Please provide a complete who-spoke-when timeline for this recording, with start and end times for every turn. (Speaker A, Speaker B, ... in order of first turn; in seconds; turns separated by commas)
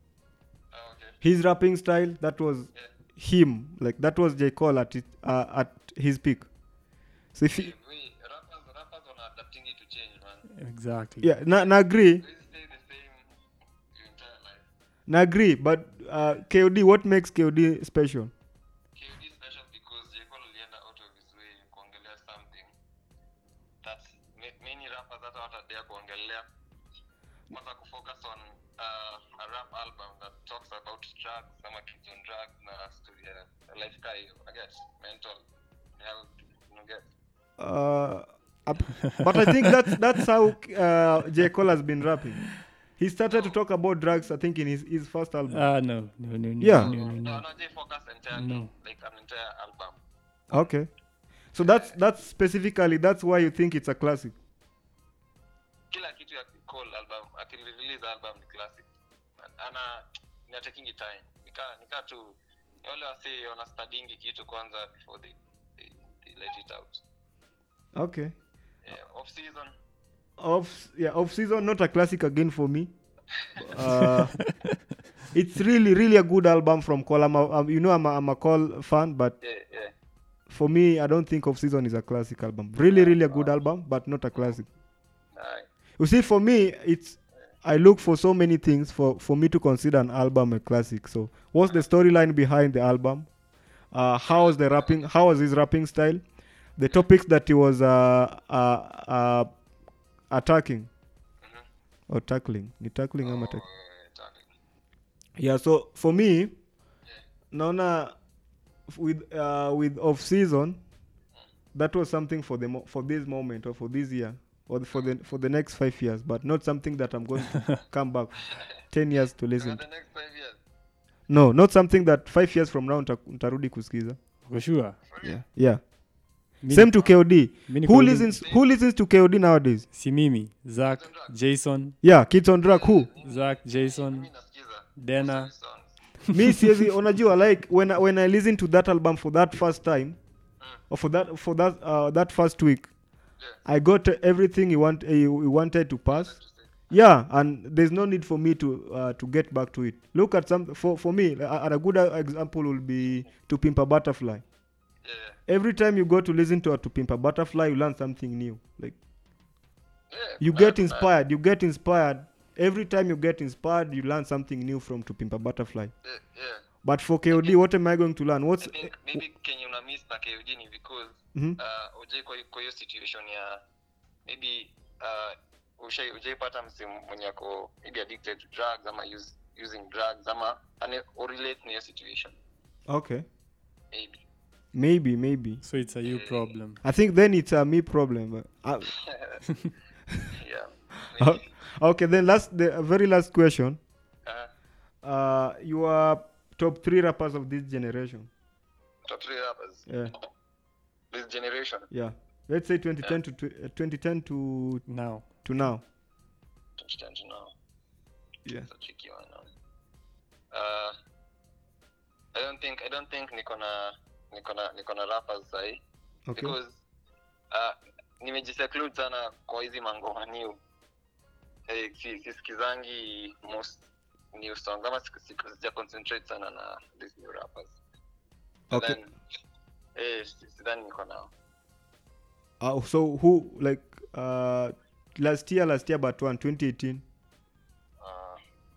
Speaker A: 0.7-1.2, Speaker B: 1.2-6.5, Speaker B: 7.3-7.7, Speaker A: 7.5-10.5, Speaker C: 10.5-11.3, Speaker B: 11.2-12.2, Speaker A: 12.2-13.3, Speaker A: 13.9-14.6, Speaker B: 15.1-18.3, Speaker A: 18.9-22.7, Speaker A: 23.8-26.5, Speaker A: 27.5-35.4, Speaker A: 36.0-37.0, Speaker B: 37.6-45.6, Speaker C: 45.5-47.4, Speaker B: 46.6-46.9, Speaker A: 46.8-50.0, Speaker C: 48.3-48.7, Speaker B: 50.5-50.9, Speaker B: 51.5-54.3, Speaker A: 51.6-51.9, Speaker A: 55.9-58.9, Speaker A: 59.4-67.0, Speaker B: 67.9-68.3, Speaker A: 68.8-69.7, Speaker B: 70.4-72.9, Speaker B: 73.5-74.4, Speaker B: 75.3-79.3, Speaker A: 79.4-79.9, Speaker B: 80.5-84.7, Speaker A: 82.9-83.5, Speaker A: 85.3-85.7, Speaker B: 86.0-93.3, Speaker B: 93.9-96.2, Speaker A: 94.3-95.0, Speaker B: 96.8-99.5, Speaker B: 100.3-100.9, Speaker B: 102.1-103.6, Speaker A: 103.2-104.5, Speaker B: 105.4-106.6, Speaker B: 107.5-108.1, Speaker B: 108.9-110.8, Speaker B: 111.7-119.8, Speaker A: 119.6-120.6, Speaker B: 121.3-124.2, Speaker C: 124.4-125.0, Speaker B: 125.2-125.8, Speaker C: 126.6-128.3, Speaker B: 126.7-129.9, Speaker C: 129.9-131.9, Speaker A: 130.9-131.3, Speaker B: 132.0-133.1, Speaker A: 132.7-136.0, Speaker C: 133.2-134.3, Speaker C: 135.0-135.5, Speaker B: 136.3-140.2, Speaker B: 140.9-142.9, Speaker B: 143.6-146.3, Speaker A: 146.1-146.7, Speaker B: 146.9-154.4, Speaker A: 155.0-155.4, Speaker B: 155.5-159.0, Speaker A: 160.1-161.1, Speaker B: 160.4-165.9, Speaker A: 166.0-166.6, Speaker B: 166.8-169.2, Speaker A: 168.6-173.6, Speaker A: 174.2-182.3, Speaker B: 182.9-183.2, Speaker B: 184.7-185.6, Speaker C: 185.6-186.8, Speaker A: 186.0-186.5, Speaker B: 186.8-188.9, Speaker A: 188.9-189.4, Speaker A: 190.4-191.5, Speaker B: 191.1-193.8, Speaker B: 195.0-198.3, Speaker A: 199.1-199.9, Speaker B: 199.9-200.1, Speaker A: 201.1-201.9, Speaker B: 201.9-204.8, Speaker C: 204.9-205.2, Speaker B: 205.4-205.8, Speaker A: 206.8-207.5, Speaker A: 208.6-209.5, Speaker A: 210.5-210.9, Speaker A: 212.3-215.8, Speaker B: 216.3-216.6, Speaker A: 216.3-216.8, Speaker A: 217.5-220.6, Speaker A: 221.7-223.8, Speaker A: 224.3-227.8, Speaker B: 228.7-229.0, Speaker A: 228.7-229.1, Speaker A: 229.9-231.3, Speaker B: 232.6-237.0, Speaker A: 238.0-238.4